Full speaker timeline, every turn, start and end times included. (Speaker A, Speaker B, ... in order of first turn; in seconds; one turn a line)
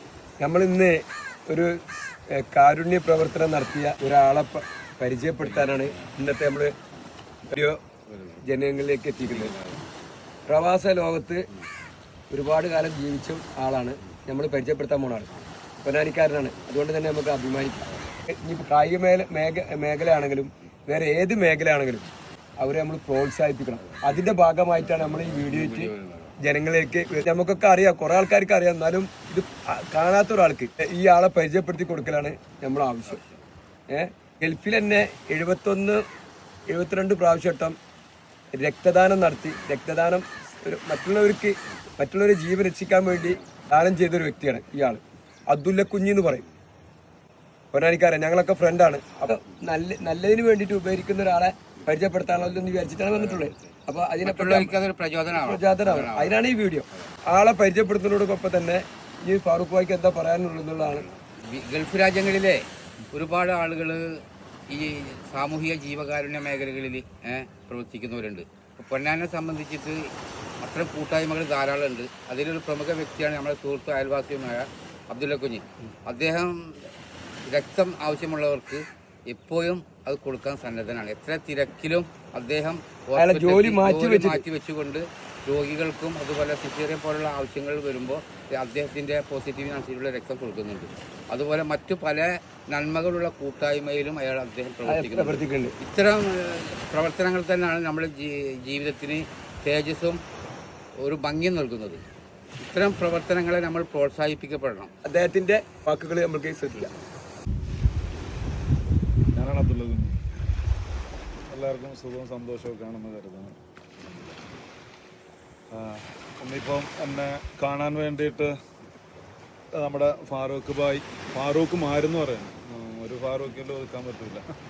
Speaker A: 0.4-6.7
Speaker B: 5.4-6.1
Speaker A: 7.5-7.8
Speaker B: 8.1-8.4
Speaker A: 8.4-9.5
Speaker B: 9.3-9.9
Speaker A: 10.5-11.5
Speaker A: 12.3-15.3
Speaker A: 15.8-33.2
Speaker B: 23.9-24.2
Speaker B: 24.9-26.4
Speaker B: 33.0-33.4
Speaker A: 33.9-36.0
Speaker A: 36.7-37.8
Speaker A: 38.6-46.4
Speaker A: 47.7-54.8
Speaker B: 53.1-53.5
Speaker B: 54.2-57.1
Speaker A: 55.4-61.0
Speaker B: 60.8-70.1
Speaker B: 70.6-76.9
Speaker B: 77.5-100.2
Speaker A: 83.2-84.4
Speaker A: 94.8-95.7
Speaker B: 101.0-102.0
Speaker B: 102.6-104.9
Speaker A: 105.0-106.9
Speaker C: 109.3-110.1
Speaker C: 111.5-113.5
Speaker C: 115.7-118.5
Speaker C: 119.7-124.4